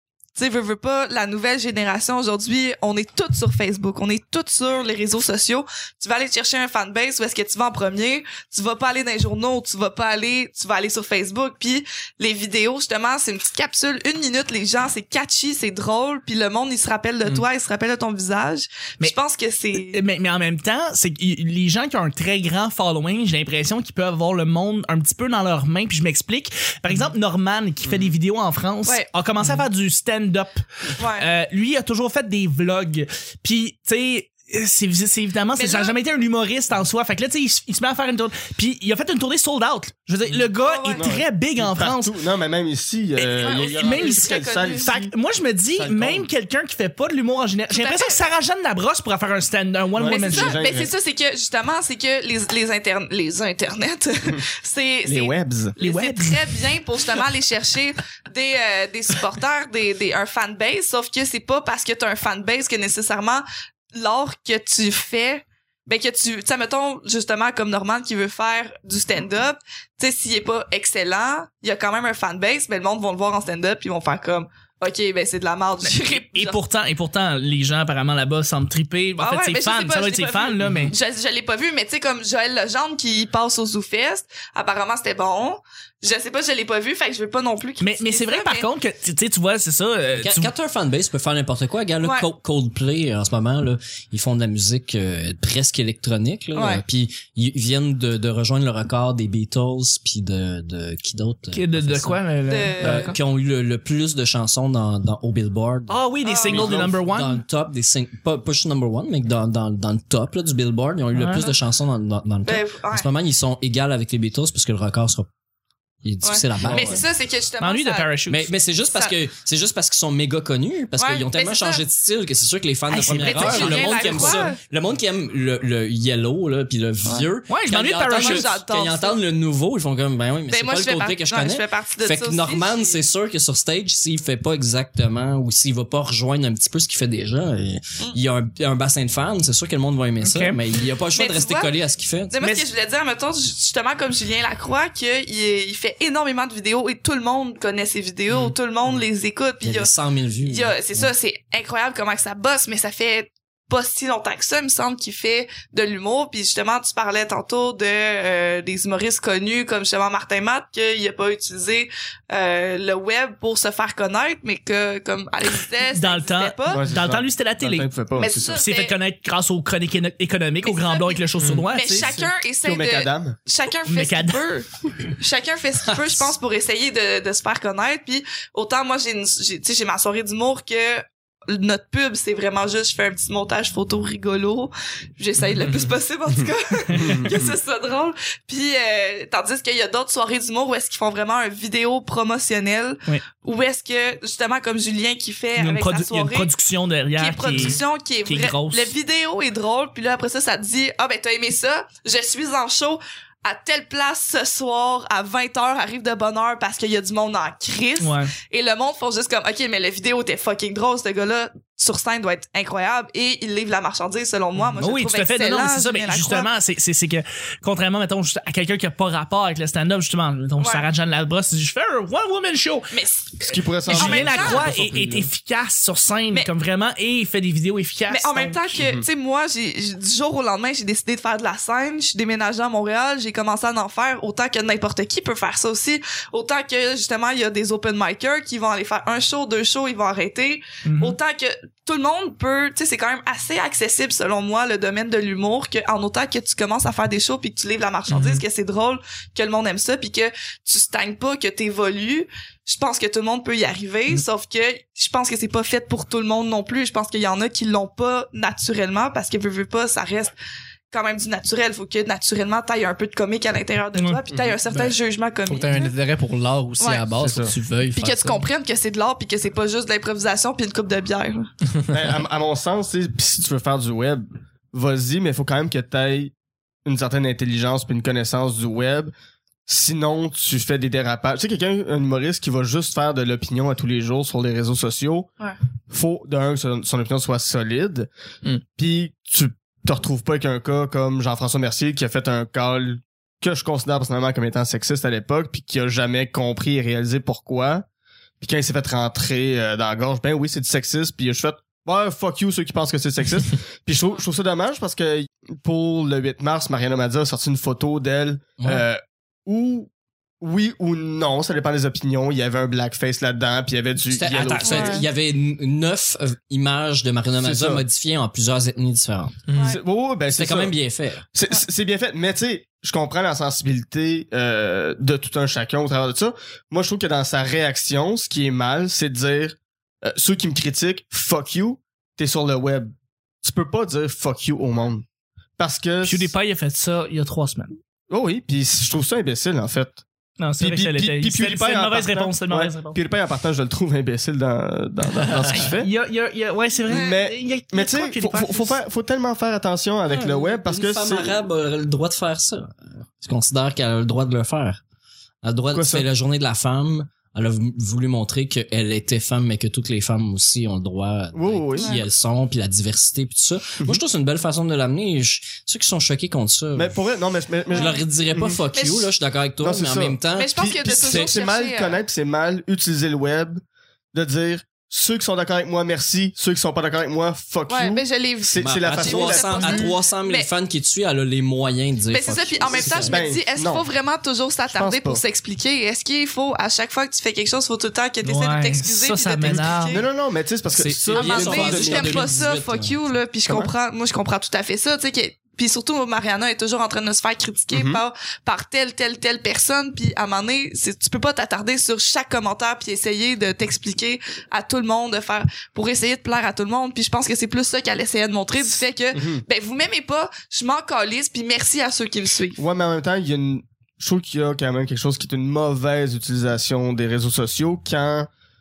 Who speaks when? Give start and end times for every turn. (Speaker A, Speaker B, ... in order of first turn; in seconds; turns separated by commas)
Speaker A: 0.3-20.0, Speaker B: 19.8-42.1, Speaker C: 27.9-28.1, Speaker A: 31.0-31.3, Speaker A: 35.5-35.9, Speaker C: 40.3-45.1, Speaker A: 40.6-41.1, Speaker A: 43.2-44.9, Speaker B: 43.6-50.6, Speaker C: 45.7-46.3, Speaker A: 47.7-48.2, Speaker C: 50.0-50.9, Speaker A: 50.1-76.6, Speaker C: 55.0-55.7, Speaker B: 55.8-56.6, Speaker B: 75.8-80.9, Speaker A: 79.2-88.7, Speaker B: 87.8-90.5, Speaker D: 90.2-102.2, Speaker A: 92.0-92.3, Speaker A: 96.5-96.8, Speaker B: 101.5-103.1, Speaker A: 102.5-103.2, Speaker D: 102.8-106.0, Speaker B: 105.9-107.4, Speaker A: 106.2-106.7, Speaker C: 106.5-107.0, Speaker D: 106.6-115.3, Speaker B: 111.1-111.5, Speaker A: 112.4-113.1, Speaker D: 116.0-117.0, Speaker A: 116.2-118.1, Speaker C: 116.6-117.0, Speaker B: 117.6-118.5, Speaker D: 118.3-142.5, Speaker A: 121.0-121.8, Speaker B: 122.9-124.5, Speaker A: 123.2-124.6, Speaker B: 127.5-128.5, Speaker A: 128.1-129.2, Speaker A: 130.5-133.0, Speaker B: 140.2-140.6, Speaker A: 141.1-141.7, Speaker A: 142.3-149.9, Speaker D: 149.6-151.1, Speaker A: 150.4-166.8, Speaker B: 165.9-167.9, Speaker C: 166.7-168.6, Speaker A: 168.1-168.9, Speaker B: 168.5-172.2, Speaker A: 170.6-196.5, Speaker C: 172.6-173.4, Speaker B: 173.9-174.4, Speaker B: 186.9-187.2, Speaker C: 186.9-187.5, Speaker B: 195.6-198.9, Speaker A: 197.2-216.5, Speaker B: 208.0-208.3, Speaker B: 214.7-222.9, Speaker A: 220.6-220.8, Speaker A: 222.9-224.7, Speaker C: 223.4-225.3, Speaker B: 223.9-228.6, Speaker A: 228.1-260.3, Speaker C: 228.7-229.1, Speaker B: 240.8-241.2, Speaker B: 248.1-248.4, Speaker A: 260.9-265.9, Speaker C: 264.3-264.6, Speaker E: 264.7-264.9, Speaker E: 265.4-268.4, Speaker A: 266.8-267.1, Speaker C: 267.2-267.5, Speaker A: 267.9-271.5, Speaker C: 271.9-276.3, Speaker C: 276.8-279.1, Speaker C: 279.7-285.3, Speaker C: 285.9-288.1, Speaker C: 288.8-297.8, Speaker C: 298.4-309.9, Speaker D: 308.6-308.8, Speaker C: 310.4-315.1, Speaker D: 314.1-319.5, Speaker A: 314.6-315.0, Speaker C: 317.4-317.8, Speaker A: 319.5-319.8, Speaker C: 319.6-320.8, Speaker D: 320.3-321.2, Speaker C: 321.3-335.0, Speaker C: 335.6-336.3, Speaker B: 336.0-337.7, Speaker C: 338.1-340.0, Speaker B: 340.4-343.0, Speaker C: 340.6-345.9, Speaker E: 345.1-345.7, Speaker B: 345.7-348.8, Speaker A: 346.9-347.1, Speaker C: 346.9-351.4, Speaker D: 350.1-354.8, Speaker D: 355.4-367.0, Speaker C: 355.7-356.1, Speaker C: 361.3-361.9, Speaker C: 366.7-368.6, Speaker D: 367.7-371.3, Speaker A: 368.7-369.1, Speaker C: 369.6-373.6, Speaker A: 370.3-372.0, Speaker C: 374.1-379.9, Speaker A: 377.7-380.5, Speaker D: 378.6-383.2, Speaker A: 382.1-390.1, Speaker C: 382.7-383.9, Speaker C: 384.7-385.2, Speaker B: 388.2-390.0, Speaker C: 389.4-392.3, Speaker D: 390.7-393.0, Speaker A: 391.1-412.6, Speaker C: 397.7-398.0, Speaker C: 409.1-409.4, Speaker C: 412.6-418.3